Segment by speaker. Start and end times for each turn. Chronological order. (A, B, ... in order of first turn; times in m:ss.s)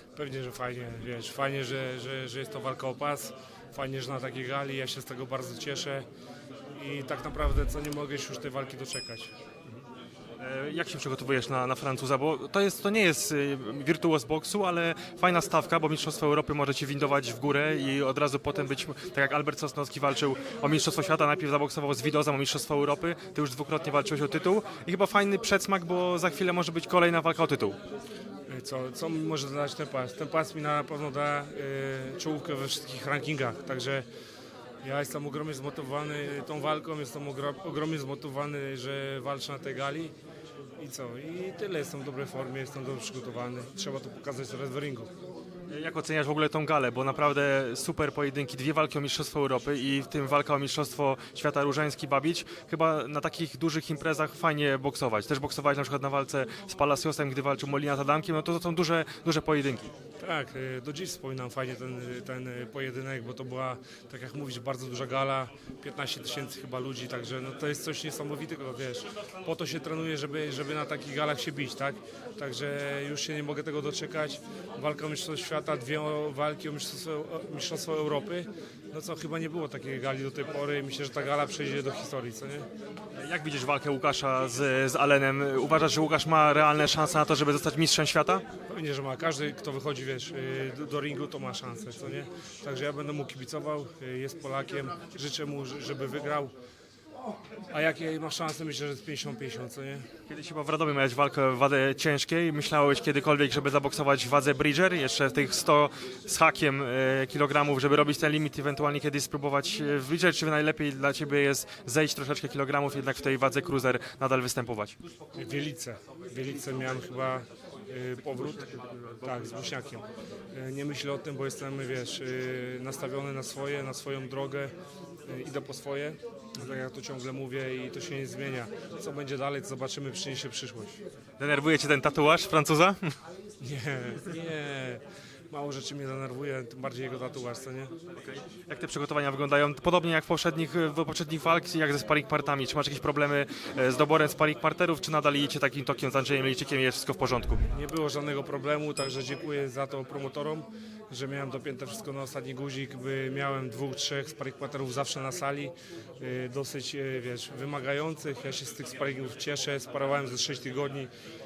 0:00.2-0:06.1 A
0:06.8-0:09.3 A
0:10.4-0:27.8 B
0:28.5-0:34.1 A
0:34.8-0:40.1 A
0:40.8-0:45.1 A
0:45.7-0:59.9 B
1:00.2-1:22.7 A
1:23.2-1:28.4 B
1:28.7-1:36.5 A
1:37.7-1:40.1 A
1:40.3-1:55.0 B
1:55.3-1:58.7 A
1:58.5-1:59.5 B
1:59.2-2:04.7 A
2:05.3-2:11.0 A
2:11.4-2:13.2 B
2:13.6-2:17.9 A
2:18.2-2:27.7 B
2:27.7-2:41.1 A